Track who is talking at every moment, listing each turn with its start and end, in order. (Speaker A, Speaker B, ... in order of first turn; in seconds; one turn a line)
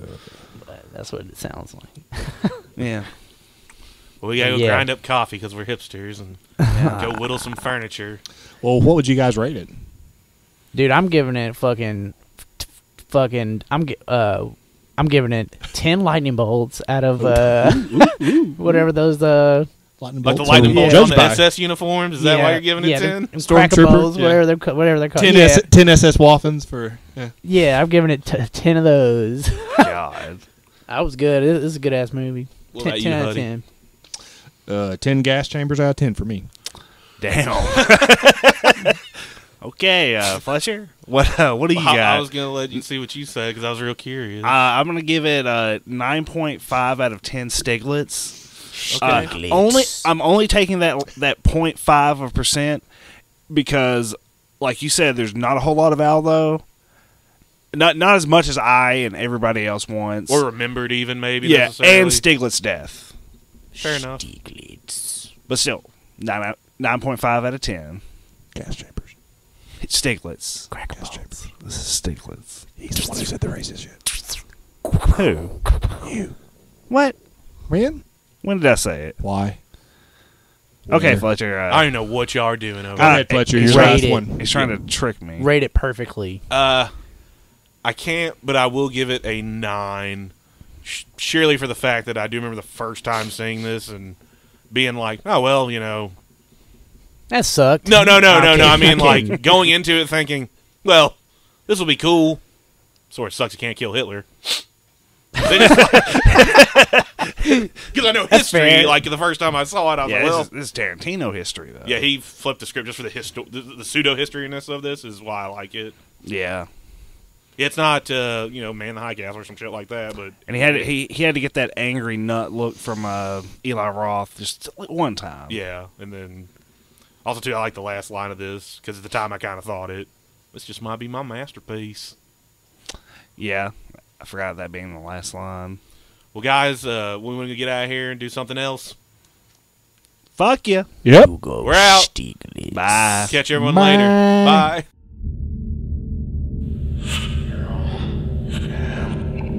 Speaker A: 0.6-2.6
Speaker B: 2.8-3.1
Speaker C: 4.2-8.2
Speaker A: 4.4-4.9
Speaker A: 6.6-7.1
Speaker B: 6.7-7.1
Speaker D: 8.6-9.7
Speaker A: 10.7-19.7
Speaker D: 17.2-18.9
Speaker D: 20.0-21.4
Speaker C: 20.2-23.3
Speaker A: 20.5-21.2
Speaker A: 22.2-25.6
Speaker D: 23.4-24.4
Speaker D: 25.1-27.3
Speaker A: 27.4-29.9
Speaker B: 29.8-30.4
Speaker A: 30.9-33.6
Speaker C: 32.7-33.5
Speaker D: 34.7-36.5
Speaker B: 37.2-39.0
Speaker B: 39.6-42.3
Speaker C: 41.7-44.6
Speaker B: 44.4-48.4
Speaker A: 48.7-50.1
Speaker C: 48.9-49.3
Speaker B: 49.0-52.8
Speaker B: 53.5-56.6
Speaker B: 57.7-60.4
Speaker C: 60.3-62.2
Speaker B: 61.4-63.1
Speaker A: 63.7-65.3
Speaker C: 63.8-64.2
Speaker B: 65.5-68.0
Speaker D: 68.5-69.1
Speaker B: 69.8-70.7
Speaker A: 70.7-71.4
Speaker B: 71.6-72.6
Speaker D: 72.8-74.0
Speaker B: 75.1-75.5
Speaker D: 76.0-76.3
Speaker B: 76.9-77.2
Speaker D: 77.7-78.0
Speaker B: 78.4-79.2
Speaker D: 79.2-79.6
Speaker D: 80.9-81.3
Speaker B: 80.9-81.9
Speaker C: 81.7-83.3
Speaker D: 83.0-84.7
Speaker B: 83.0-85.5
Speaker A: 83.5-84.3
Speaker A: 85.4-86.4
Speaker C: 86.5-86.9
Speaker C: 87.8-90.3
Speaker C: 90.8-94.2
Speaker C: 94.7-96.2
Speaker A: 97.3-99.4
Speaker C: 97.8-101.2
Speaker C: 101.7-102.4
Speaker C: 103.1-104.6
Speaker C: 105.4-106.3
Speaker B: 105.7-107.0
Speaker A: 106.3-106.6
Speaker A: 107.4-107.7
Speaker C: 107.9-110.5
Speaker A: 108.3-109.0
Speaker B: 110.0-112.0
Speaker C: 111.8-115.9
Speaker B: 116.2-116.7
Speaker C: 117.6-120.9
Speaker B: 120.5-125.6
Speaker C: 125.5-126.5
Speaker C: 127.2-132.1
Speaker B: 133.4-135.8
Speaker C: 136.3-138.9
Speaker B: 140.4-140.9
Speaker D: 141.0-141.3
Speaker A: 141.1-143.3
Speaker C: 141.6-142.1
Speaker B: 142.7-143.4
Speaker C: 143.3-144.8
Speaker D: 143.5-144.7
Speaker B: 148.7-149.1